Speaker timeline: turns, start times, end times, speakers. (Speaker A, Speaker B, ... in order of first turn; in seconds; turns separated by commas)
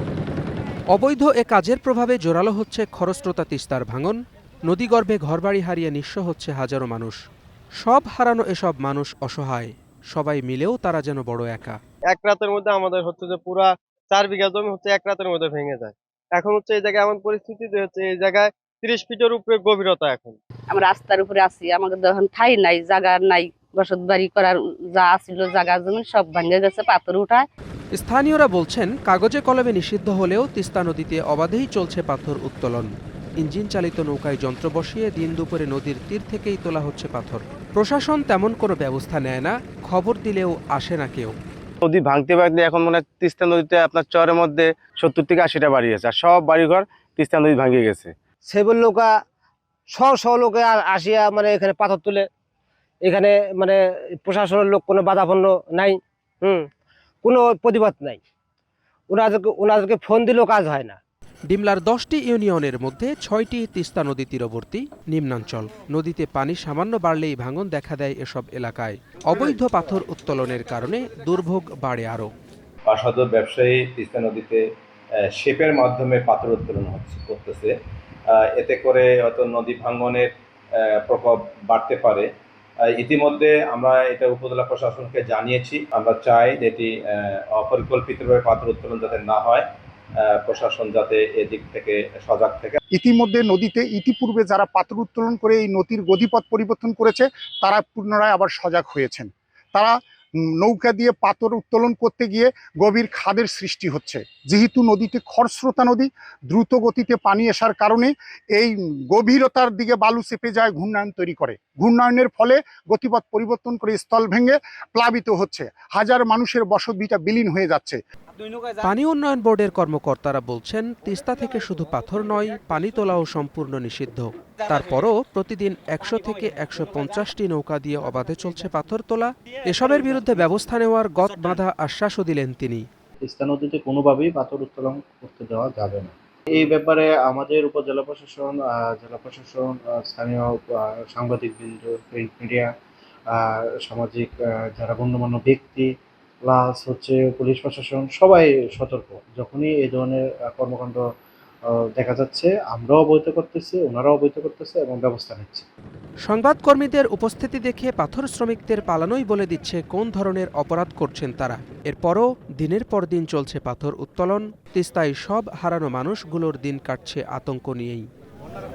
Speaker A: 0.9-7.2, Speaker A: 7.8-11.8, Speaker B: 12.1-20.4, Speaker C: 20.7-27.5, Speaker A: 27.9-41.3, Speaker D: 41.8-48.1, Speaker E: 48.5-49.1, Speaker E: 49.9-52.3, Speaker E: 53.0-56.7, Speaker E: 57.2-58.2, Speaker E: 59.1-61.0, Speaker A: 61.5-72.3, Speaker F: 72.9-74.6, Speaker F: 75.4-77.7, Speaker F: 78.4-80.3, Speaker F: 81.0-82.3, Speaker F: 82.9-89.7, Speaker F: 90.2-92.8, Speaker G: 92.9-100.0, Speaker G: 100.6-118.0, Speaker A: 118.8-132.8, Speaker H: 133.2-142.7, Speaker H: 143.3-145.9, Speaker H: 146.4-151.0, Speaker H: 151.9-155.7, Speaker A: 156.2-168.1